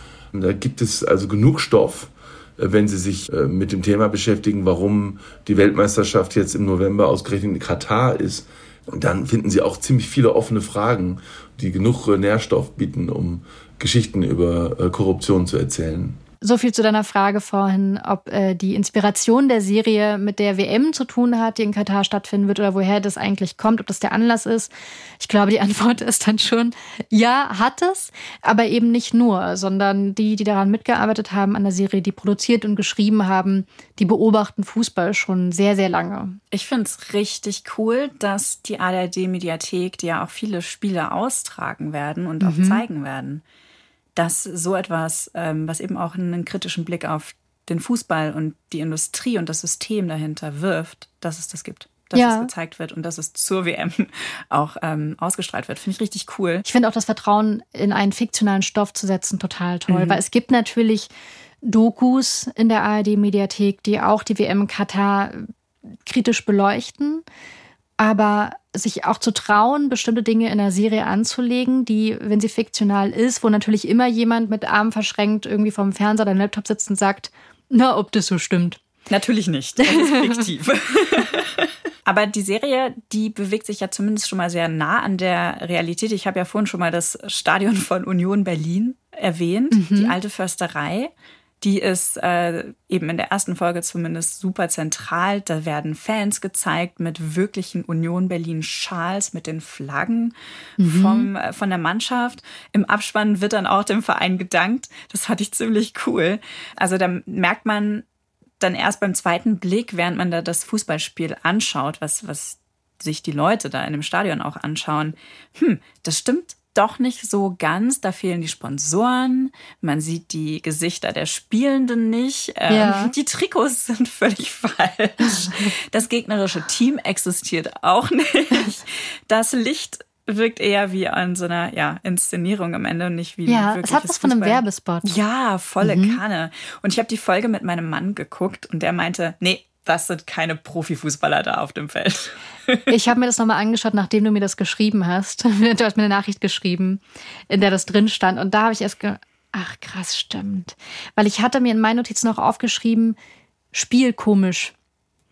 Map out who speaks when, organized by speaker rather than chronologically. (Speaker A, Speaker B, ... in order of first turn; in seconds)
Speaker A: 0.3-16.2
Speaker B: 16.4-36.4, 42.4-42.8, 52.1-52.5, 56.6-61.1, 61.6-65.5, 66.0-67.2, 68.0-78.8, 79.8-80.5, 89.7-90.2, 100.8-101.3, 122.7-123.1, 125.2-125.6, 133.5-135.1, 135.8-136.2, 142.9-153.2, 153.7-154.7
Speaker C: 36.5-43.4, 44.2-56.6, 59.9-60.2, 79.1-108.0, 108.6-142.9